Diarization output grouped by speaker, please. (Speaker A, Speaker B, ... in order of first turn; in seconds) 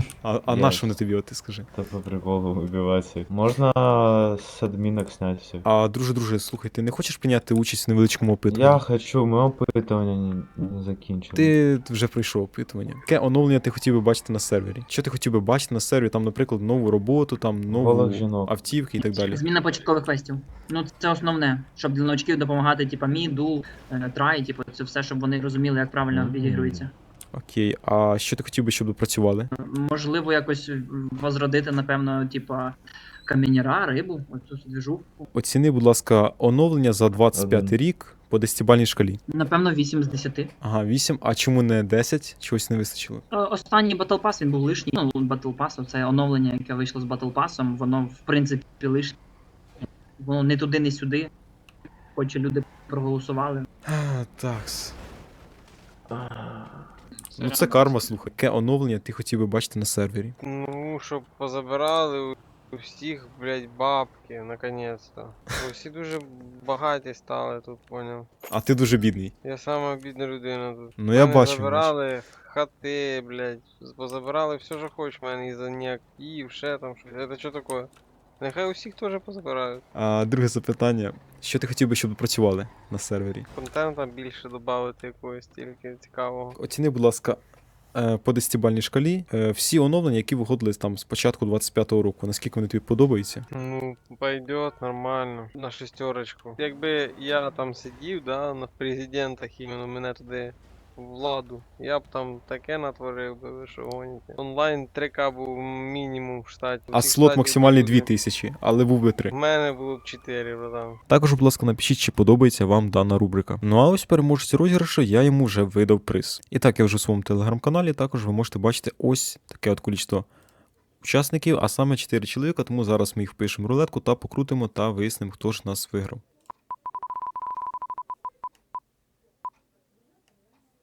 Speaker A: 0.2-1.7, 5.6-8.8, 11.3-19.4, 27.3-29.5, 35.3-39.2, 40.6-43.2, 53.9-54.9, 57.4-60.3, 68.5-69.3, 71.0-71.9, 79.9-83.5, 86.6-87.4, 87.9-93.5, 106.9-109.3, 111.1-120.2, 121.0-126.2
Speaker B: 0.5-1.0, 1.7-5.6, 8.5-11.5, 17.7-18.5, 26.1-26.9, 37.3-37.8
Speaker C: 19.0-26.9, 29.6-35.2, 39.3-40.5, 43.3-49.2, 50.2-51.3, 52.1-53.7, 57.4-58.0
Speaker D: 60.4-68.2, 69.4-77.9, 78.4-79.8, 83.5-86.6, 93.5-108.1, 109.3-111.0